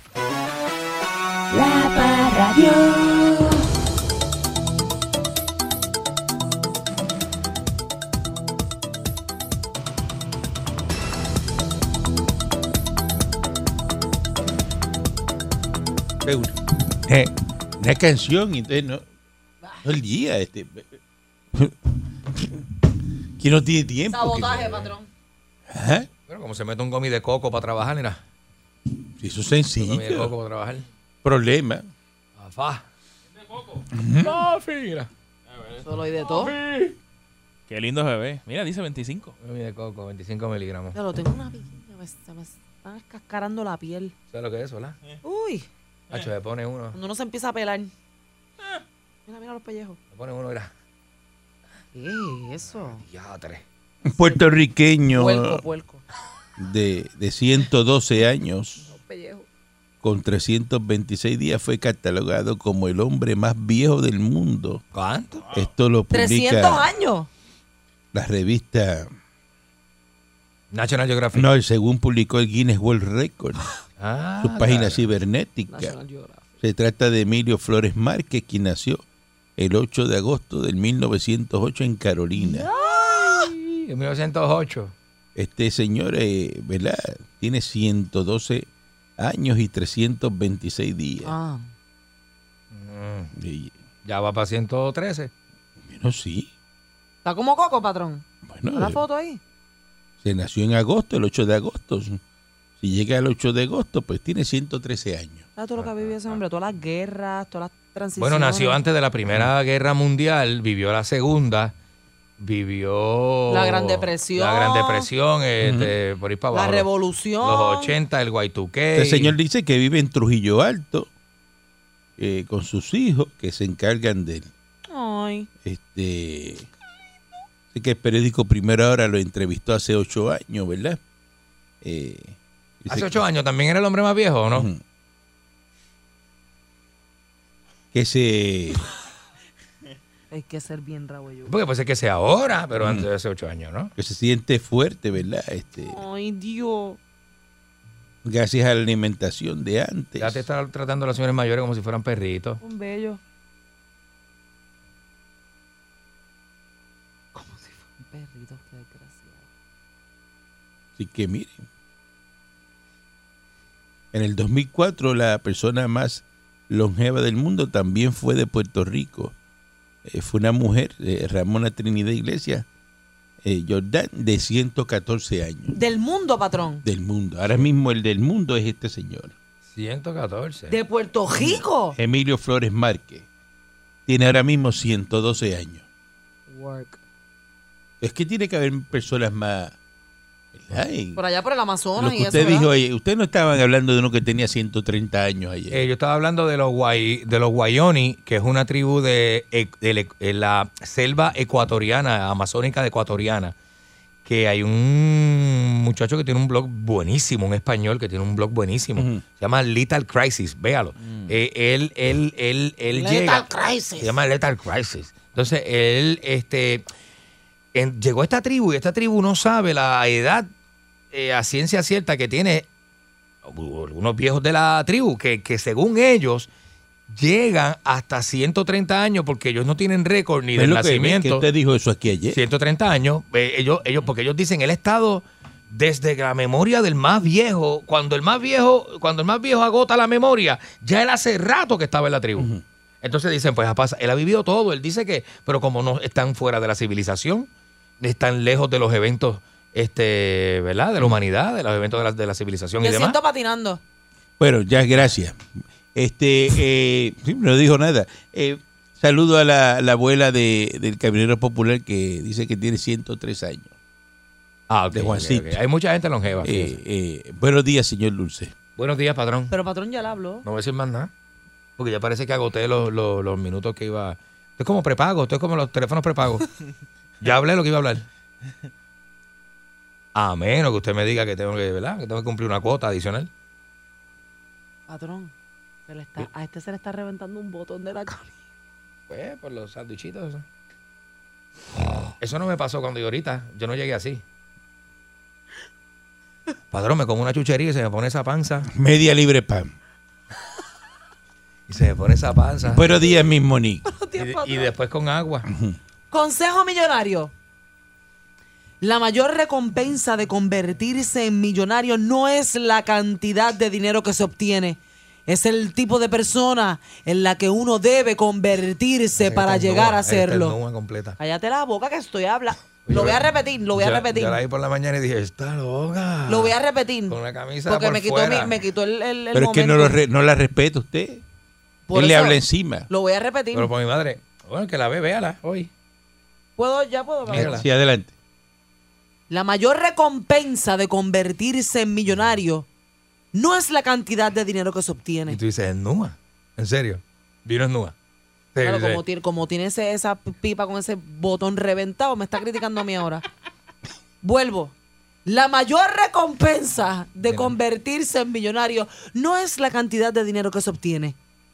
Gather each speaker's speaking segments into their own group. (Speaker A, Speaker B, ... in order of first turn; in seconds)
Speaker A: 1.5-3.6, 24.1-25.1, 35.8-36.5, 40.9-44.1, 45.2-45.7, 46.9-47.9, 49.3-50.0, 51.9-53.0, 55.1-56.0, 58.8-59.5, 66.1-67.3, 75.7-76.5, 82.4-83.5, 91.2-91.7, 97.2-99.4, 105.6-108.8, 113.5-115.1, 116.5-118.0, 124.9-125.5, 140.3-141.5, 145.9-147.0, 152.6-153.2, 157.3-159.4, 175.7-176.8, 180.7-182.0, 186.5-187.0, 191.2-192.7, 212.9-214.1, 252.8-253.8, 269.5-270.5, 284.9-285.3, 285.9-288.4, 303.9-304.7, 306.1-307.3, 308.8-320.6, 321.2-324.4, 326.3-330.0, 331.9-333.7, 336.6-337.6, 339.3-342.7, 343.3-345.4, 348.6-353.3, 354.2-354.7, 355.3-361.2
Speaker B: 16.2-19.0, 19.8-20.9, 21.5-22.7, 23.4-24.9, 25.7-26.1, 29.2-30.3, 31.2-31.9, 33.9-34.3, 54.0-55.6, 56.6-58.8, 60.0-64.8, 65.5-66.9, 68.1-69.1, 71.3-73.7, 74.4-76.0, 76.6-79.0, 79.6-82.7, 85.4-91.3, 93.4-93.7, 95.8-96.5, 98.5-99.0, 100.2-102.2, 102.8-105.5, 115.6-116.0, 119.0-121.1, 122.2-124.5, 125.6-126.7, 127.7-131.0, 131.8-133.2, 134.5-134.8, 137.9-138.8, 142.8-143.1, 144.0-146.0, 148.2-150.4, 161.0-161.6, 164.1-169.3, 170.1-172.7, 173.4-175.7, 176.8-179.3, 181.9-183.3, 184.1-185.8, 188.0-189.7, 190.6-191.2, 192.0-195.8, 209.0-209.2, 230.6-232.4, 242.4-242.6, 254.4-255.4, 255.9-263.7, 264.9-265.6, 266.4-268.5, 298.7-299.7, 302.7-303.9, 305.5-305.8, 329.3-331.2, 331.9-332.9, 337.3-338.1
Speaker C: 26.3-28.2, 29.8-30.9, 32.4-32.8, 34.2-35.1, 36.3-37.0, 39.4-41.0, 44.3-45.0, 46.1-47.0, 50.1-50.7, 52.8-53.6, 64.9-65.5, 70.7-71.5, 74.0-75.1, 82.8-84.9, 92.7-93.3, 94.0-95.3, 108.2-111.7, 112.4-116.9, 117.4-119.3, 132.9-134.7, 141.5-143.9, 150.2-152.6, 179.7-180.8, 195.7-203.6, 204.2-216.8, 217.7-220.5, 221.1-222.7, 223.4-226.5, 227.1-231.5, 232.3-242.5, 243.0-247.5, 248.0-253.2, 264.7-266.8, 268.8-269.5, 270.4-271.1, 271.8-276.5, 277.2-278.1, 280.1-283.3, 289.1-290.4, 292.2-294.2, 296.7-298.7, 301.7-302.9, 304.2-305.5, 319.2-321.2, 322.9-326.6, 327.1-328.6, 333.5-335.7, 337.3-337.6, 345.3-347.9, 348.6-349.0, 357.3-357.6
Speaker D: 35.5-35.9, 37.7-39.4